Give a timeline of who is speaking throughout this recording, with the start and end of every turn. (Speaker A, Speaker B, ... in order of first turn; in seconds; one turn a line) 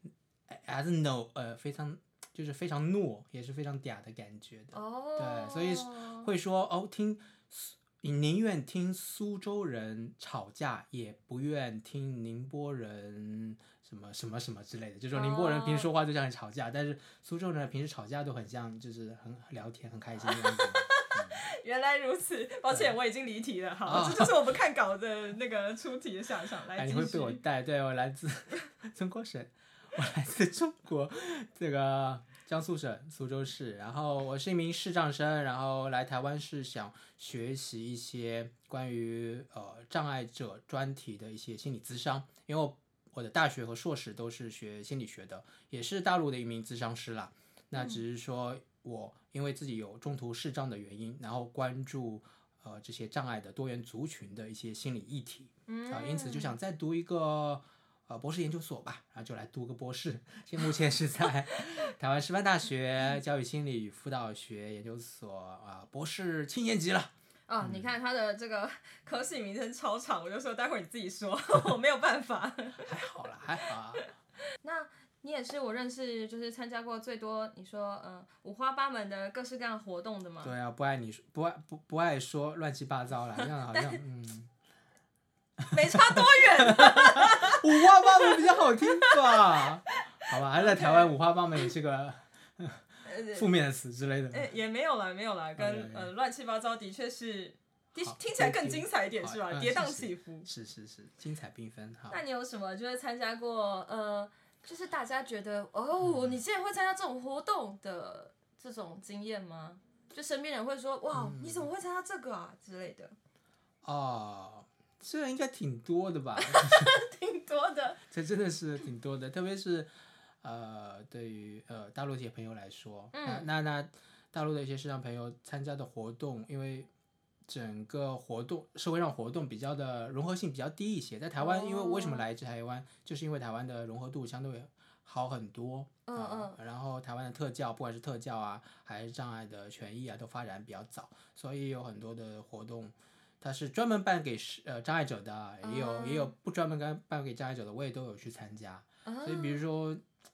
Speaker A: 0.5-21.4
Speaker B: 4.7-6.3
Speaker B: 15.1-15.9
Speaker B: 20.2-27.4
Speaker A: 23.9-24.4
Speaker A: 26.8-67.9
Speaker B: 47.8-48.0
Speaker B: 55.7-56.6
Speaker B: 67.5-72.9
Speaker A: 72.8-74.1
Speaker B: 74.6-80.5
Speaker A: 80.4-84.5
Speaker B: 83.7-84.0
Speaker A: 85.6-94.5
Speaker B: 85.7-91.1
Speaker B: 93.0-93.5
Speaker B: 94.3-100.5
Speaker A: 95.6-96.1
Speaker A: 98.0-102.2
Speaker B: 102.1-113.2
Speaker A: 106.0-106.4
Speaker A: 111.1-111.7
Speaker A: 113.8-116.9
Speaker B: 116.4-118.0
Speaker A: 118.1-119.9
Speaker A: 120.4-126.9
Speaker B: 123.1-123.5
Speaker A: 127.5-150.0
Speaker B: 131.4-132.2
Speaker B: 136.1-136.6
Speaker B: 145.6-146.3
Speaker B: 149.1-149.6